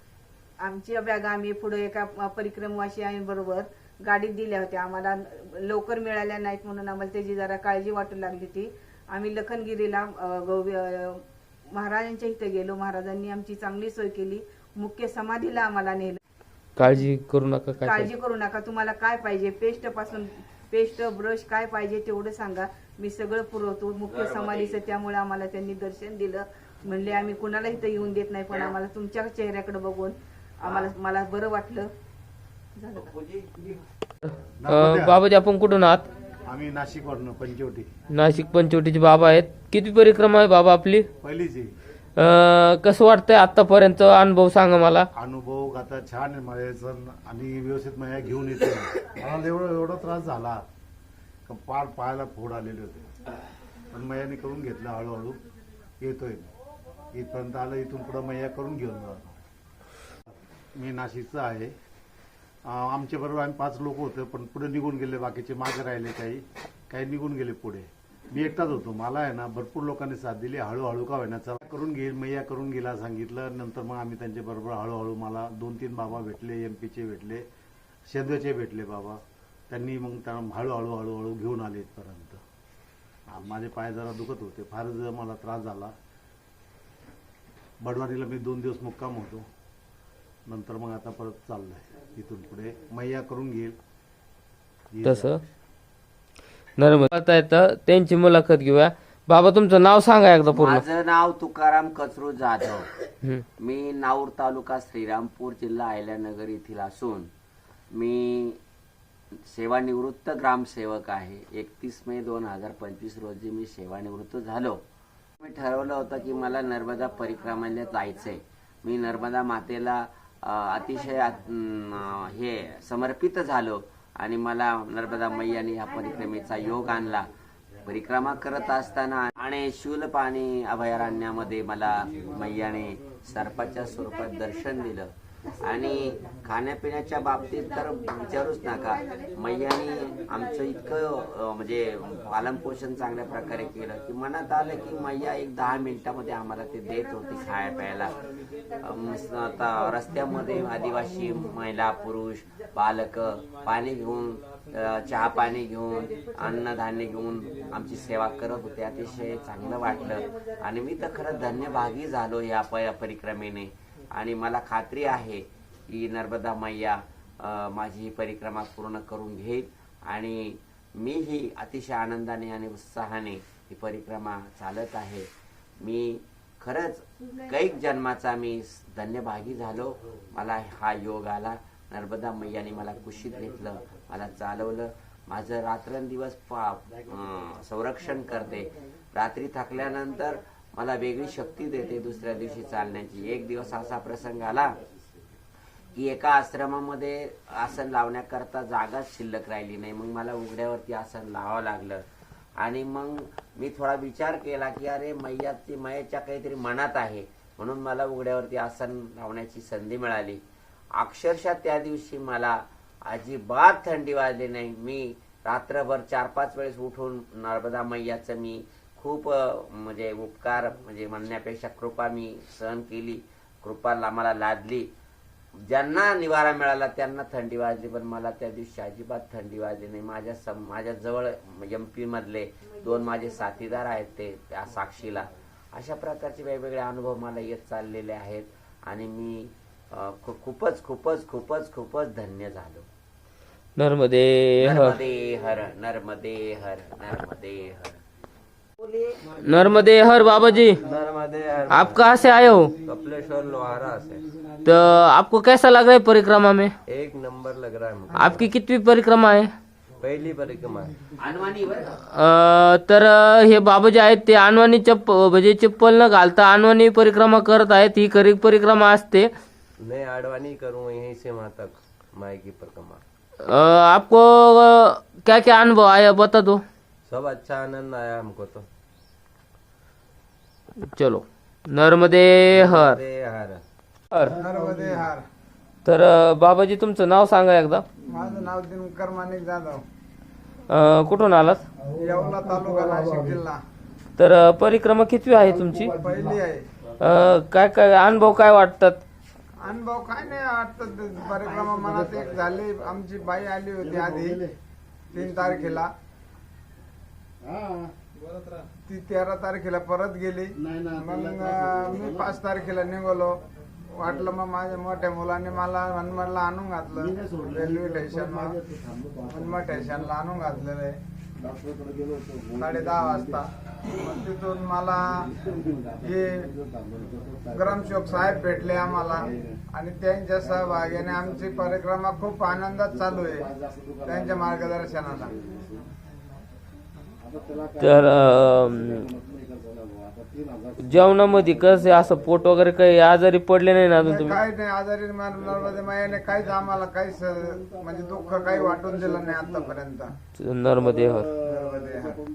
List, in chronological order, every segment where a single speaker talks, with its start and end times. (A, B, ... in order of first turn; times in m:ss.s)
0:00.6-0:16.2 A
0:16.8-0:18.1 B
0:17.8-0:31.9 A
0:32.8-0:33.2 A
0:34.2-0:36.1 B
0:34.6-0:35.2 C
0:36.4-0:37.9 C
0:38.1-0:41.1 B
0:41.2-0:41.7 C
0:42.2-0:45.1 B
0:45.1-0:50.6 C
0:51.4-0:53.1 C
0:53.9-0:55.4 C
0:56.0-0:56.5 C
0:57.1-0:59.4 C
1:00.7-1:01.7 C
1:02.6-1:17.4 C
1:18.1-1:22.4 C
1:23.3-1:25.9 C
1:27.8-1:29.5 C
1:30.5-1:33.8 C
1:34.9-1:35.4 C
1:35.0-1:35.4 B
1:36.8-1:40.8 B
1:40.5-1:42.9 D
1:43.6-1:47.3 D
1:47.9-1:48.6 D
1:49.5-1:54.8 D
1:55.4-2:07.3 D
2:07.8-2:28.2 D
2:28.8-2:55.3 D
2:55.8-3:14.8 D
3:15.9-3:22.0 D
3:22.6-3:30.4 D
3:31.0-3:44.9 D
3:45.7-4:02.9 D
4:03.8-4:04.9 B
4:04.6-4:08.0 D
4:09.4-4:10.8 B
4:11.2-4:11.6 E
4:11.7-4:12.8 B
4:13.0-4:14.1 E
4:14.6-4:16.7 B
4:17.1-4:18.2 E
4:18.1-4:19.5 B
4:20.0-4:20.8 E
4:21.2-4:22.0 D
4:22.1-4:29.3 B
4:29.8-4:33.0 E
4:33.4-4:36.6 B
4:37.1-4:38.6 E
4:40.9-4:43.0 B
4:42.6-4:43.6 E
4:44.1-4:44.4 B
4:44.4-4:45.2 F
4:45.8-4:47.8 B
4:48.1-4:49.8 F
4:50.7-4:51.6 B
4:52.0-4:53.6 F
4:54.2-4:55.9 B
4:56.0-4:56.6 F
4:57.0-4:59.0 B
4:59.6-5:04.4 F
5:04.0-5:04.5 C
5:05.1-5:05.9 F
5:05.1-5:05.6 C
5:07.4-5:07.9 C
5:08.9-5:13.4 F
5:10.6-5:12.2 C
5:14.0-5:18.6 F
5:17.0-5:19.2 C
5:19.3-5:21.0 F
5:21.4-5:22.4 C
5:22.6-5:25.3 F
5:25.4-5:25.9 C
5:26.0-5:26.5 F
5:26.6-5:27.4 C
5:27.5-5:33.5 F
5:33.5-5:33.9 C
5:34.0-5:35.4 F
5:37.3-5:37.7 C
5:37.8-5:39.0 B
5:39.2-5:40.2 C
5:40.8-5:44.4 B
5:44.0-5:50.1 F
5:50.4-5:51.3 B
5:51.4-5:52.2 F